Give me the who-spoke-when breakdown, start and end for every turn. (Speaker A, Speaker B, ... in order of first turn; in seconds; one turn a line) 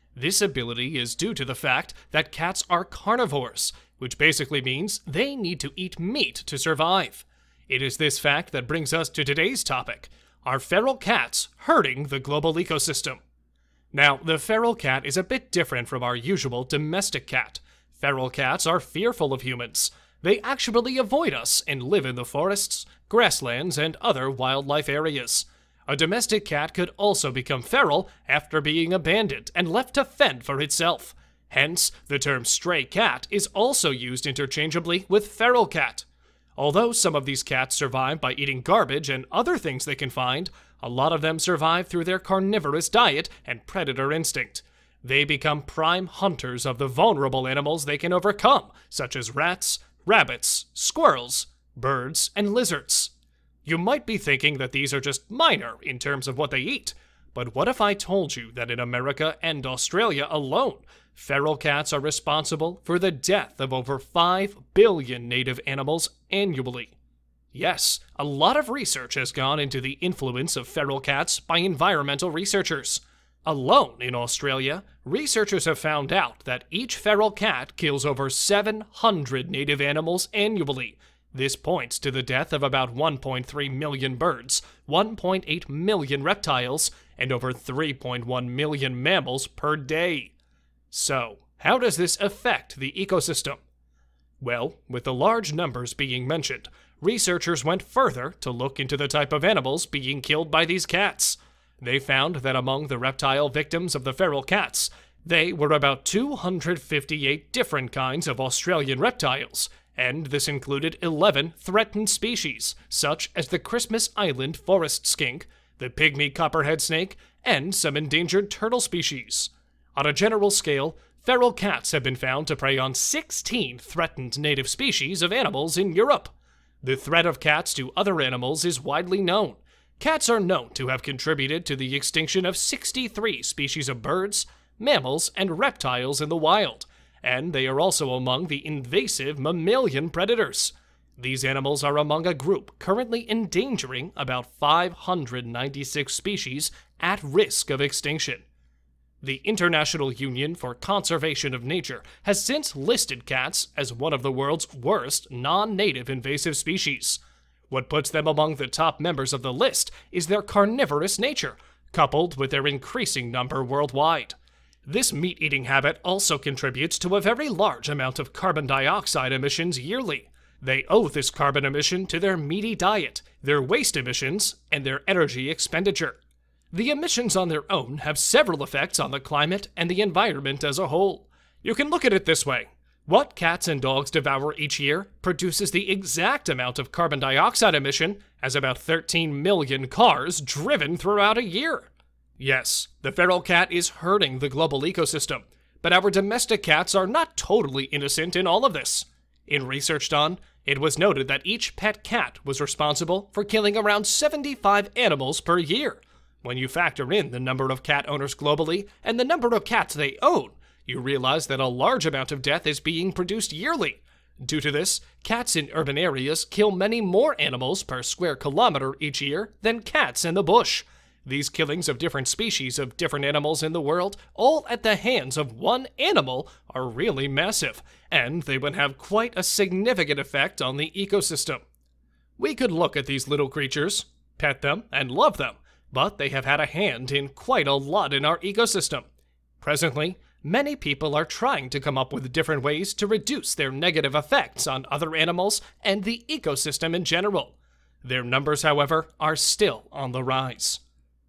Speaker A: 0.1-13.2
Speaker A: 13.9-53.1
Speaker A: 53.6-67.0
Speaker A: 67.5-90.3
Speaker A: 90.9-93.6
Speaker A: 94.4-148.4
Speaker A: 149.2-176.2
Speaker A: 176.7-231.6
Speaker A: 232.4-239.1
Speaker A: 239.6-250.8